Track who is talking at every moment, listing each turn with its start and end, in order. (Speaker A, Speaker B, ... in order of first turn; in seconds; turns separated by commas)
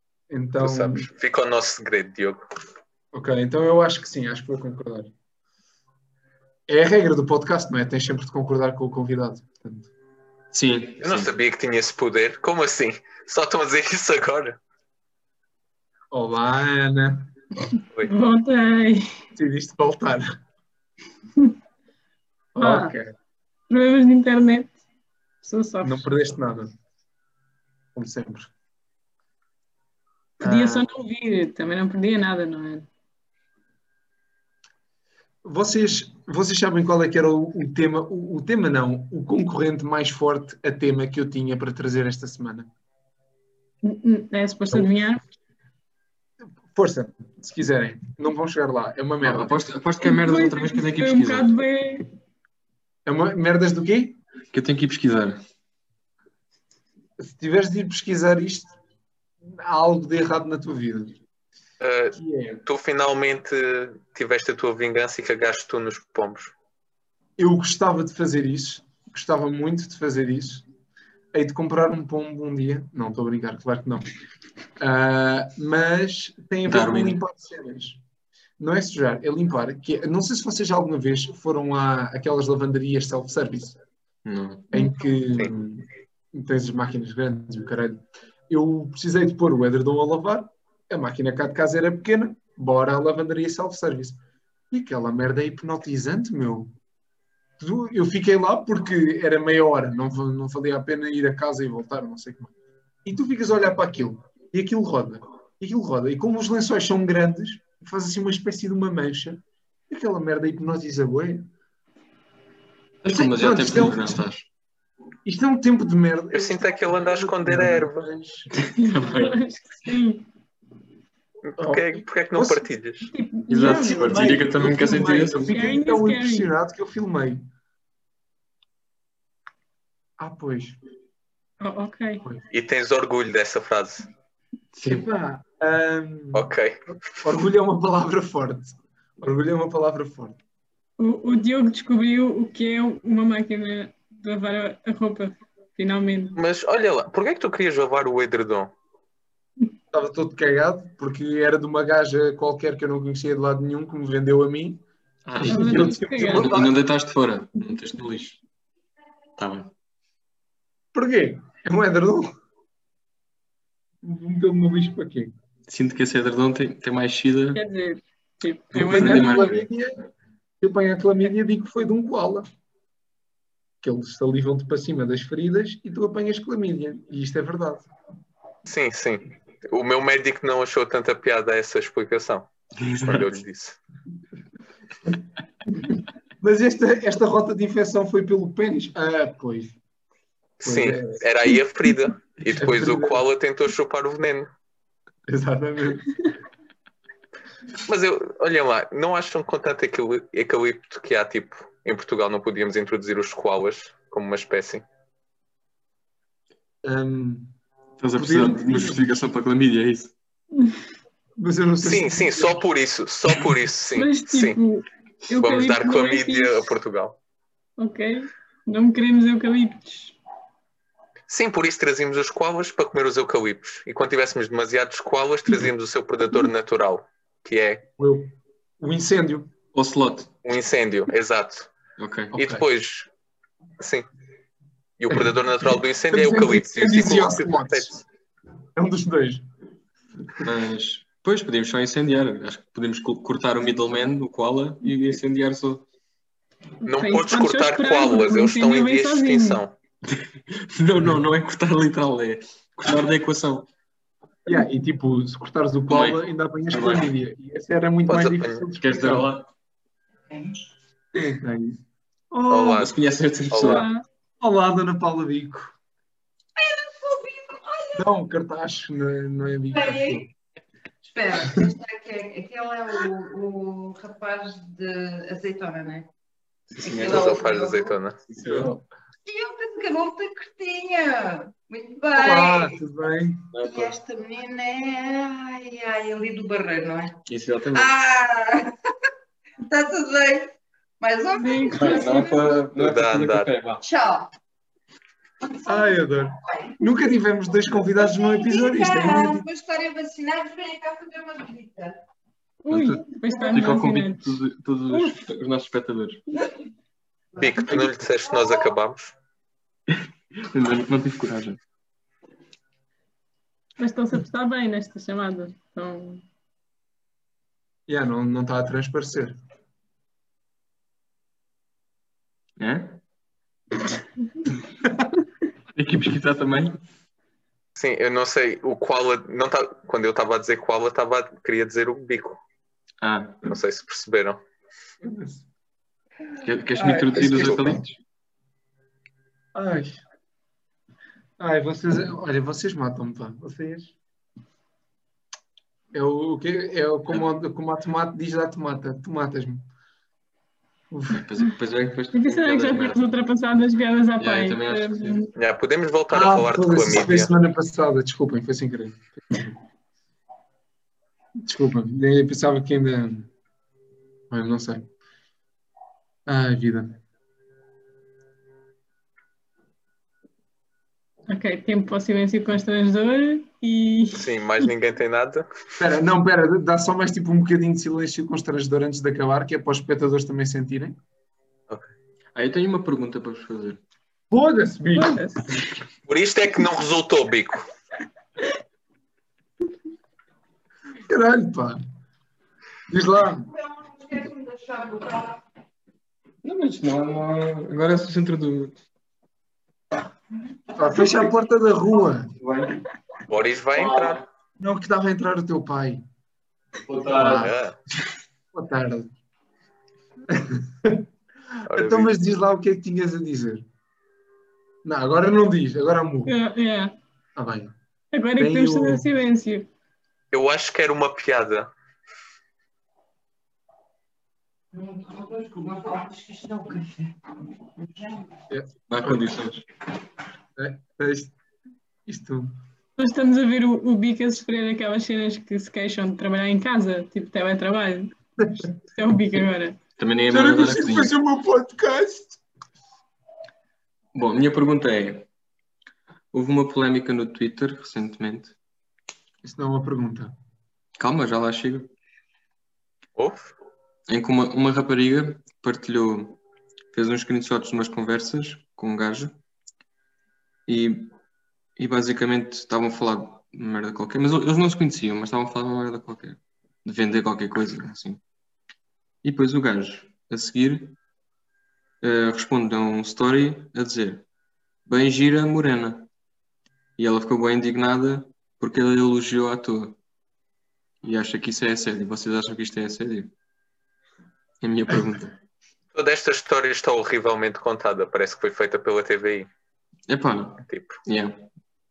Speaker A: 0.3-1.1, Speaker B: 0.6-2.5, Speaker A: 3.1-5.1, Speaker A: 6.7-9.9, Speaker C: 10.5-11.3, Speaker B: 11.0-14.6, Speaker A: 16.1-17.3, Speaker D: 18.0-19.1, Speaker A: 19.3-20.3, Speaker A: 22.5-23.1, Speaker D: 22.6-22.9, Speaker D: 23.7-24.8, Speaker D: 25.4-26.1, Speaker A: 25.8-26.7, Speaker A: 27.9-28.5, Speaker A: 30.4-30.9, Speaker D: 30.4-32.9, Speaker A: 35.4-42.7, Speaker D: 43.8-45.2, Speaker A: 46.7-49.6, Speaker C: 49.2-51.5, Speaker D: 50.0-52.1, Speaker A: 53.0-54.2, Speaker C: 54.5-55.4, Speaker A: 57.2-58.7, Speaker A: 59.4-61.2, Speaker B: 61.8-66.5, Speaker A: 62.1-62.6, Speaker A: 67.4-70.7, Speaker A: 71.3-74.1, Speaker A: 74.8-78.0, Speaker C: 76.7-77.2, Speaker A: 78.6-83.8, Speaker C: 84.2-84.7, Speaker A: 84.7-96.7, Speaker A: 97.6-102.5, Speaker A: 103.0-111.5, Speaker C: 113.0-114.4, Speaker A: 113.1-114.2, Speaker A: 115.2-118.5, Speaker B: 116.3-118.1, Speaker C: 118.6-119.3, Speaker D: 118.7-120.2, Speaker B: 121.5-123.1, Speaker A: 121.6-122.7, Speaker D: 123.0-126.5, Speaker C: 123.5-125.5, Speaker A: 123.6-127.4, Speaker A: 130.2-130.8, Speaker D: 131.6-132.2, Speaker B: 132.5-134.1, Speaker C: 134.7-135.1, Speaker A: 134.8-140.4, Speaker B: 136.3-136.9, Speaker D: 141.0-146.4, Speaker B: 146.3-148.7, Speaker A: 149.9-154.8, Speaker C: 155.2-158.4, Speaker A: 155.4-156.8, Speaker D: 155.4-156.7, Speaker C: 159.4-159.7, Speaker A: 160.9-162.3, Speaker A: 164.0-165.3, Speaker C: 165.7-167.6, Speaker D: 167.5-169.6, Speaker C: 168.7-169.6, Speaker A: 168.8-170.0, Speaker A: 170.6-172.4, Speaker A: 173.8-177.9, Speaker B: 178.6-183.8, Speaker C: 182.8-183.2, Speaker A: 185.8-189.8, Speaker B: 190.6-194.5, Speaker A: 190.6-191.2, Speaker A: 192.6-193.2, Speaker A: 195.3-196.2, Speaker B: 197.8-204.8, Speaker A: 206.8-207.5, Speaker C: 208.0-210.1, Speaker A: 208.1-209.2, Speaker A: 211.4-212.6, Speaker B: 211.8-214.6, Speaker D: 213.9-216.7, Speaker B: 215.4-217.2, Speaker D: 217.8-220.2, Speaker B: 221.3-227.8, Speaker A: 228.0-229.5, Speaker C: 229.7-230.3, Speaker B: 230.4-231.7, Speaker C: 232.0-232.3, Speaker A: 232.3-232.6, Speaker B: 232.3-233.1, Speaker B: 233.8-234.1, Speaker B: 235.0-238.0, Speaker A: 235.1-238.0, Speaker A: 238.8-239.4, Speaker C: 240.4-245.8, Speaker D: 246.8-249.6, Speaker B: 246.8-249.7, Speaker C: 250.1-253.7, Speaker A: 254.4-259.3, Speaker C: 255.9-257.1, Speaker B: 258.1-258.7, Speaker C: 258.8-259.5, Speaker A: 261.1-261.8, Speaker A: 262.3-262.9, Speaker B: 262.5-263.0, Speaker C: 262.7-263.9, Speaker B: 263.5-263.9, Speaker D: 263.6-264.0, Speaker A: 264.4-265.7, Speaker E: 266.6-268.0, Speaker A: 267.9-270.3, Speaker E: 269.7-270.3, Speaker E: 271.0-276.1, Speaker C: 276.7-277.4, Speaker E: 276.8-277.9, Speaker B: 277.0-278.2, Speaker C: 278.3-278.8, Speaker A: 278.4-278.7, Speaker E: 279.2-282.8, Speaker A: 282.1-283.5, Speaker C: 283.5-284.0, Speaker E: 283.6-288.8, Speaker C: 287.2-287.9, Speaker E: 289.6-292.6, Speaker D: 291.4-292.2, Speaker C: 291.7-293.8, Speaker B: 292.8-293.5, Speaker E: 293.8-294.3, Speaker E: 295.4-295.9, Speaker A: 295.6-299.4, Speaker E: 296.5-296.8, Speaker E: 297.9-301.9, Speaker D: 302.6-304.4, Speaker C: 302.7-306.2, Speaker D: 304.9-305.2, Speaker E: 307.3-308.7, Speaker B: 307.4-309.1, Speaker C: 309.9-311.6, Speaker D: 313.8-316.2, Speaker A: 317.9-319.4, Speaker C: 322.6-323.0, Speaker C: 325.7-326.8, Speaker B: 327.8-332.4, Speaker C: 333.0-333.4, Speaker B: 333.4-334.4, Speaker A: 335.0-335.4, Speaker C: 336.4-338.0, Speaker A: 336.7-337.8, Speaker B: 337.3-337.6, Speaker A: 339.5-340.0, Speaker A: 341.4-343.9, Speaker A: 345.9-349.6, Speaker A: 350.9-351.2, Speaker C: 351.1-353.1, Speaker D: 352.1-355.3, Speaker C: 354.2-355.2, Speaker B: 355.3-357.3, Speaker A: 356.1-359.6, Speaker A: 361.4-363.3, Speaker A: 364.3-364.9, Speaker A: 366.3-367.0, Speaker D: 371.3-374.3, Speaker B: 374.1-375.5, Speaker A: 375.8-381.0, Speaker C: 382.3-383.8, Speaker A: 384.3-385.3, Speaker D: 384.9-385.6, Speaker B: 386.1-387.7, Speaker A: 391.1-391.8, Speaker A: 392.9-393.5, Speaker E: 393.4-395.4, Speaker C: 396.4-398.8, Speaker A: 400.7-402.3, Speaker C: 402.4-402.8, Speaker B: 403.3-404.2, Speaker C: 403.8-404.2, Speaker A: 404.6-406.0, Speaker C: 406.8-407.5, Speaker A: 407.1-407.5, Speaker B: 407.3-407.8, Speaker A: 408.5-409.1, Speaker A: 410.3-411.1, Speaker A: 411.6-413.6, Speaker B: 411.7-412.1, Speaker A: 414.8-416.3, Speaker D: 416.3-416.9, Speaker A: 417.4-417.7, Speaker D: 418.1-419.7, Speaker A: 418.4-419.1, Speaker B: 420.3-421.7, Speaker E: 424.7-427.2, Speaker E: 427.8-428.2, Speaker A: 428.5-429.3, Speaker C: 428.9-429.6, Speaker A: 430.6-431.3, Speaker A: 432.1-432.5, Speaker D: 433.0-438.1, Speaker A: 438.4-438.7, Speaker D: 438.9-439.8, Speaker C: 440.0-441.1, Speaker A: 440.3-442.4, Speaker C: 444.1-445.2, Speaker C: 446.3-448.5, Speaker A: 449.4-450.3, Speaker C: 451.0-451.9, Speaker B: 453.1-453.5, Speaker C: 454.1-456.4, Speaker C: 456.9-459.3, Speaker C: 460.7-461.1, Speaker C: 461.8-468.2, Speaker C: 469.2-471.0, Speaker C: 472.0-474.2, Speaker C: 474.9-476.1, Speaker C: 477.0-480.0, Speaker C: 481.0-483.3, Speaker C: 484.6-485.3, Speaker B: 485.9-489.5, Speaker C: 490.1-491.4, Speaker B: 490.7-491.0